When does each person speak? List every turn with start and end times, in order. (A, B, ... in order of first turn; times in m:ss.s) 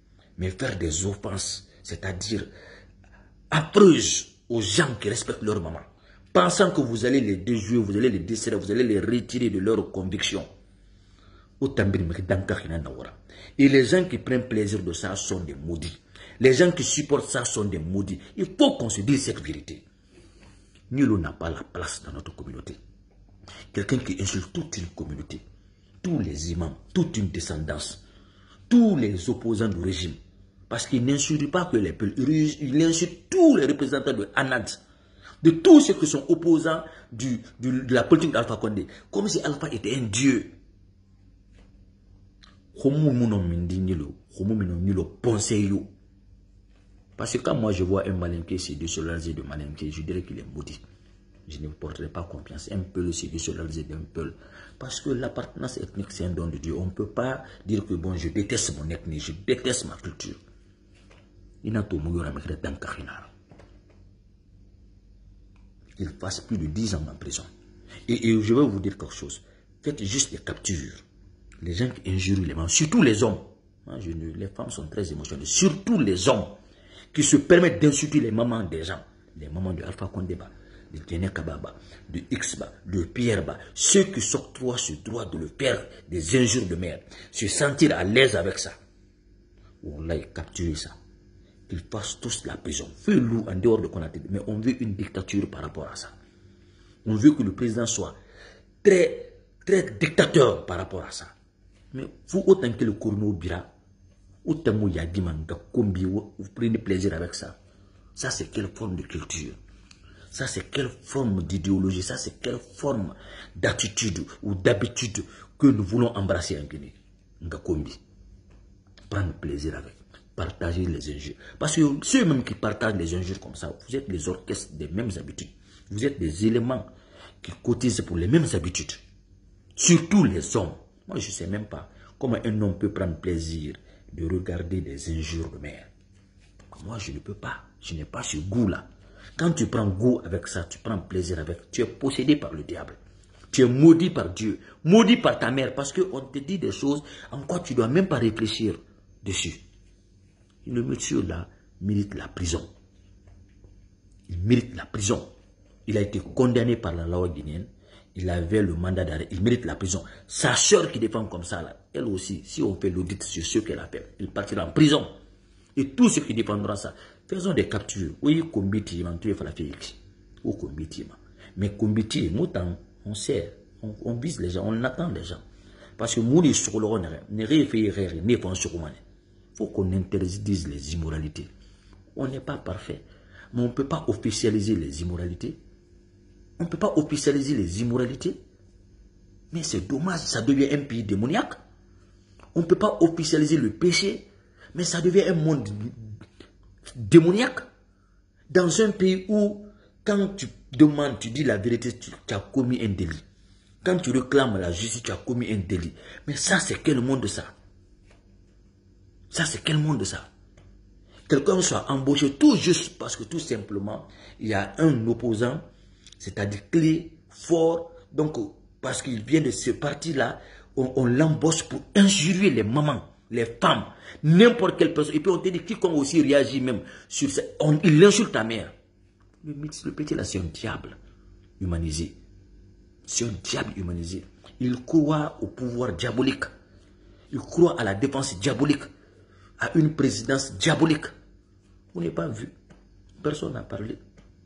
0:00.4-0:02.5 A
0:03.5-0:10.5 A
0:11.6-0:19.8 A
0:20.9-0:22.8 A
0:23.7-0:25.4 A
0:26.0-0:28.0 A
0:28.7-0:30.2 A
0:30.7-0:34.8 A
0:35.4-0:40.5 A
0:42.7-0:45.9 A
0:47.2-0:50.8 A
0:51.4-1:00.4 A
1:01.6-1:03.3 A
1:06.0-1:07.5 A
1:08.1-1:11.0 A
1:11.6-1:16.6 A
1:17.1-1:28.7 A
1:29.8-1:30.9 A
1:31.7-1:36.1 A
1:37.0-1:38.1 A
1:38.8-1:41.3 A
1:41.9-1:43.7 A
1:44.4-1:47.6 A
1:48.2-1:49.6 A
1:50.3-1:58.0 A
1:59.1-2:06.9 A
2:07.4-2:09.0 A
2:09.8-2:15.9 A
2:16.7-2:23.0 A
2:23.5-2:29.6 A
2:30.6-2:32.7 A
2:34.3-2:35.3 A
2:35.8-2:45.1 A
2:45.8-2:55.4 A
2:56.0-2:59.0 A
2:59.6-3:01.5 A
3:02.1-3:05.6 A
3:06.6-3:08.4 A
3:09.5-3:11.6 A
3:12.5-3:16.1 A
3:16.9-3:17.6 A
3:18.5-3:23.2 A
3:23.8-3:27.5 A
3:29.3-3:30.3 A
3:31.3-3:35.6 A
3:36.2-3:48.7 A
3:49.4-3:51.0 A
3:51.6-3:52.2 A
3:53.0-3:56.5 A
3:57.3-3:58.9 A
3:59.6-4:01.1 A
4:01.9-4:02.5 A
4:03.2-4:04.0 A